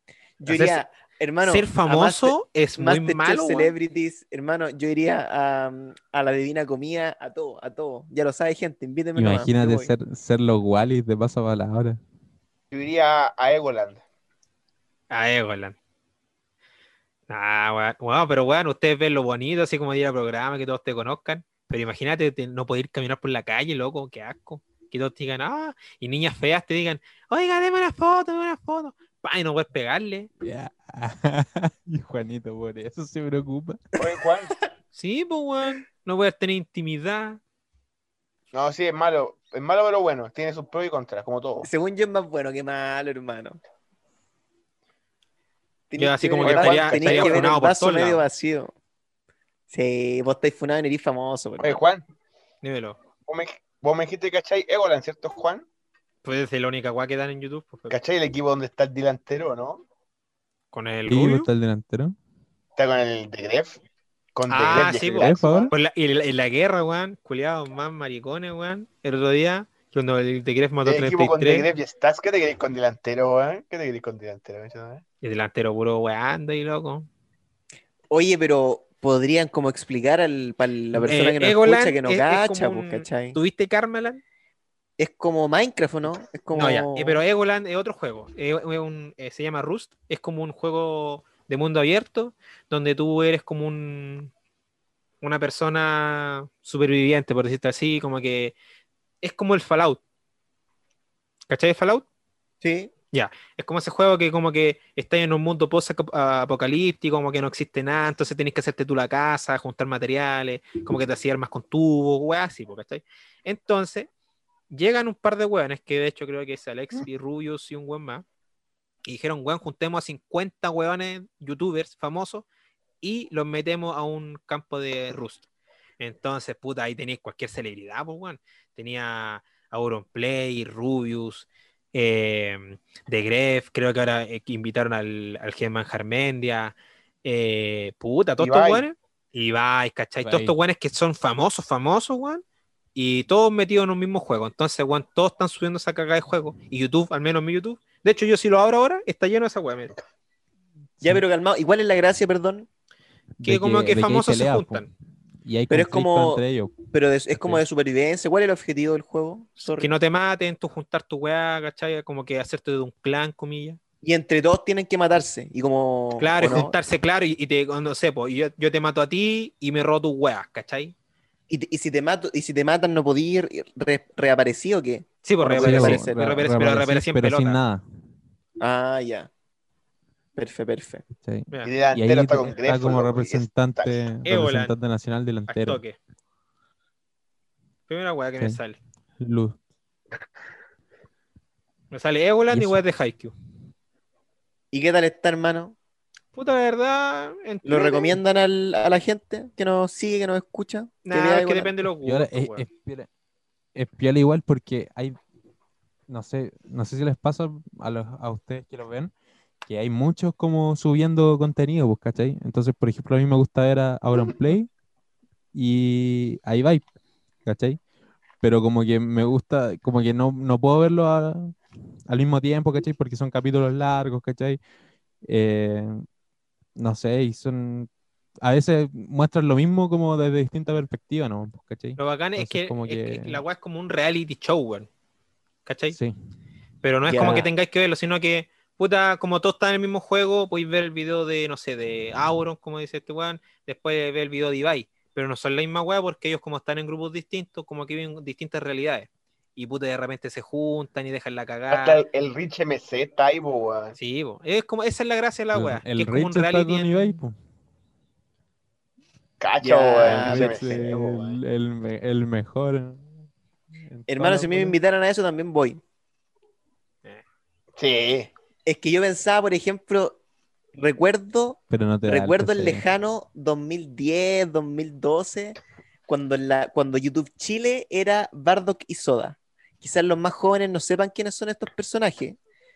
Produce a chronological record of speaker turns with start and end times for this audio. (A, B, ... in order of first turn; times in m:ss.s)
0:00.4-0:09.9 A
0:00.5-0:00.8 B
0:01.4-0:03.7 B
0:09.2-0:12.0 C
0:12.7-0:14.0 D
0:15.1-0:15.8 B
0:17.3-0:30.3 B
0:30.4-0:33.8 C
0:34.0-0:34.6 D
0:34.9-0:37.4 B
0:38.5-0:41.7 D
0:41.6-0:43.6 A
0:45.9-0:48.7 A
0:46.0-0:48.2 B
0:46.4-0:47.5 D
0:49.7-0:51.8 A
0:51.6-0:52.0 D
0:52.6-0:53.0 B
0:53.3-0:55.7 D
0:56.2-0:57.9 B
0:57.9-0:59.8 D
1:00.7-1:01.5 B
1:01.1-1:02.2 C
1:02.8-1:03.8 D
1:04.4-1:05.7 D
1:04.5-1:11.7 B
1:05.2-1:05.7 C
1:10.8-1:15.0 D
1:15.2-1:17.1 B
1:18.1-1:23.4 A
1:21.0-1:24.2 B
1:25.0-1:27.2 A
1:26.5-1:34.3 B
1:35.2-1:38.6 B
1:39.2-1:40.0 B
1:41.5-1:42.1 B
1:42.6-1:42.9 A
1:43.1-1:54.1 B
1:54.7-1:58.2 B
1:59.0-2:02.5 B
2:03.0-2:05.5 B
2:06.0-2:22.4 B
2:18.4-2:18.8 D
2:20.2-2:20.6 C
2:23.0-2:29.9 B
2:31.0-2:32.7 A
2:33.4-2:34.9 C
2:33.4-2:34.9 B
2:35.4-2:36.8 C
2:35.7-2:39.9 A
2:37.3-2:37.6 C
2:39.7-2:43.8 B
2:44.0-2:46.8 A
2:46.2-2:50.9 B
2:51.5-2:56.3 A
2:55.2-2:57.6 B
2:55.5-2:57.8 C
2:58.6-2:59.3 A
3:00.4-3:01.0 A
3:01.2-3:05.8 C
3:01.6-3:04.1 D
3:04.3-3:04.7 B
3:05.5-3:06.0 B
3:07.9-3:08.8 B
3:09.2-3:09.6 C
3:11.9-3:13.3 B
3:12.5-3:12.8 C
3:14.7-3:15.8 A
3:16.3-3:18.2 B
3:17.6-3:21.7 A
3:21.0-3:22.7 B
3:22.0-3:23.1 C
3:23.8-3:25.2 C
3:26.1-3:29.1 C
3:29.6-3:34.7 C
3:35.5-3:36.9 C
3:37.4-3:37.8 C
3:38.4-3:41.6 C
3:42.1-3:44.6 C
3:45.2-3:46.0 C
3:46.8-3:47.9 C
3:48.4-3:53.4 C
3:52.0-3:54.9 B
3:55.7-3:56.0 B
3:55.9-3:56.2 C
3:56.8-4:12.0 B
3:57.1-3:57.5 A
4:11.7-4:14.0 D
4:14.0-4:17.2 B
4:15.5-4:17.4 C
4:19.4-4:21.4 D
4:19.6-4:20.8 A
4:20.0-4:23.0 C
4:23.8-4:24.8 C
4:24.1-4:25.8 A
4:27.8-4:28.3 D
4:28.7-4:30.2 A
4:30.8-4:42.4 A
4:31.7-4:32.8 C